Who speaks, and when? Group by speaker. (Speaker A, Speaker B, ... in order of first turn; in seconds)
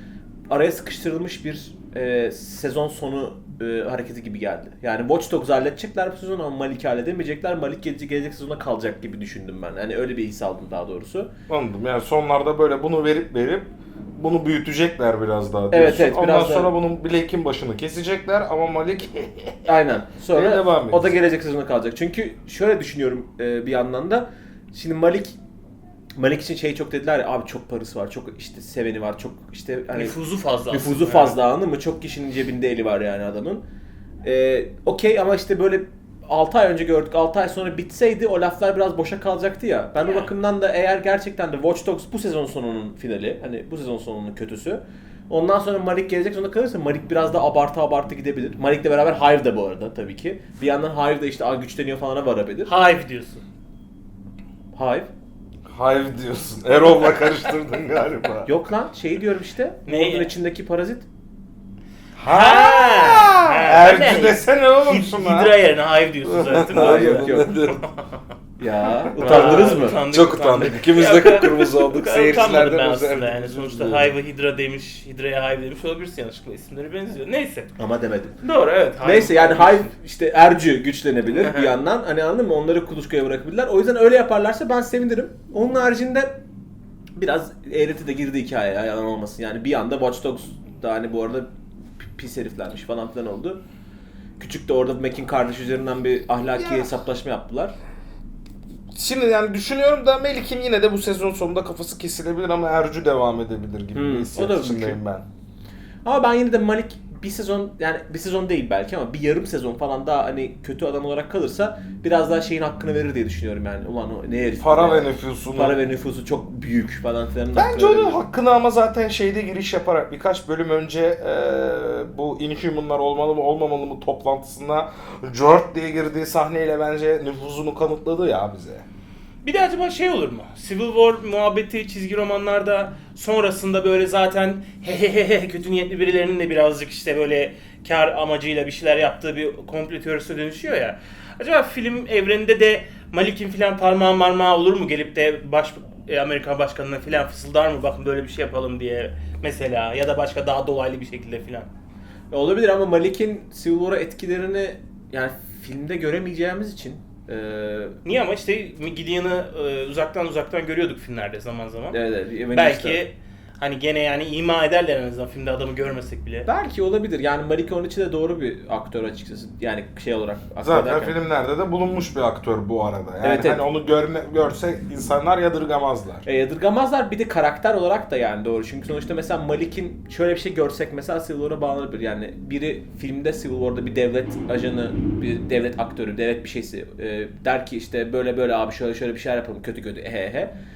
Speaker A: 0.5-11.3, 15.7-16.7, 19.7-25.4, 26.1-30.1, 30.7-33.6, 34.2-52.7, 54.7-55.1, 58.5-61.1, 66.7-67.6, 68.6-70.0, 77.8-78.4, 79.0-86.3, 87.2-91.5, 92.1-93.6, 94.4-97.7, 103.9-105.0, 106.0-118.2, 152.3-158.0, 161.9-163.0, 166.5-171.2, 173.2-173.6, 176.3-190.5
Speaker B: 11.5-19.7, 20.3-21.1, 55.7-58.5, 62.2-65.6, 66.2-67.8, 69.0-74.1, 96.6-96.9, 98.9-105.2, 114.6-115.8, 117.5-128.9, 170.6-176.2
Speaker C: 29.9-31.4, 40.0-40.3, 52.7-53.4, 59.9-60.3, 62.2-68.2, 69.2-77.7, 78.4-79.9, 81.4-81.7, 129.4-151.7, 158.0-162.0, 162.5-166.5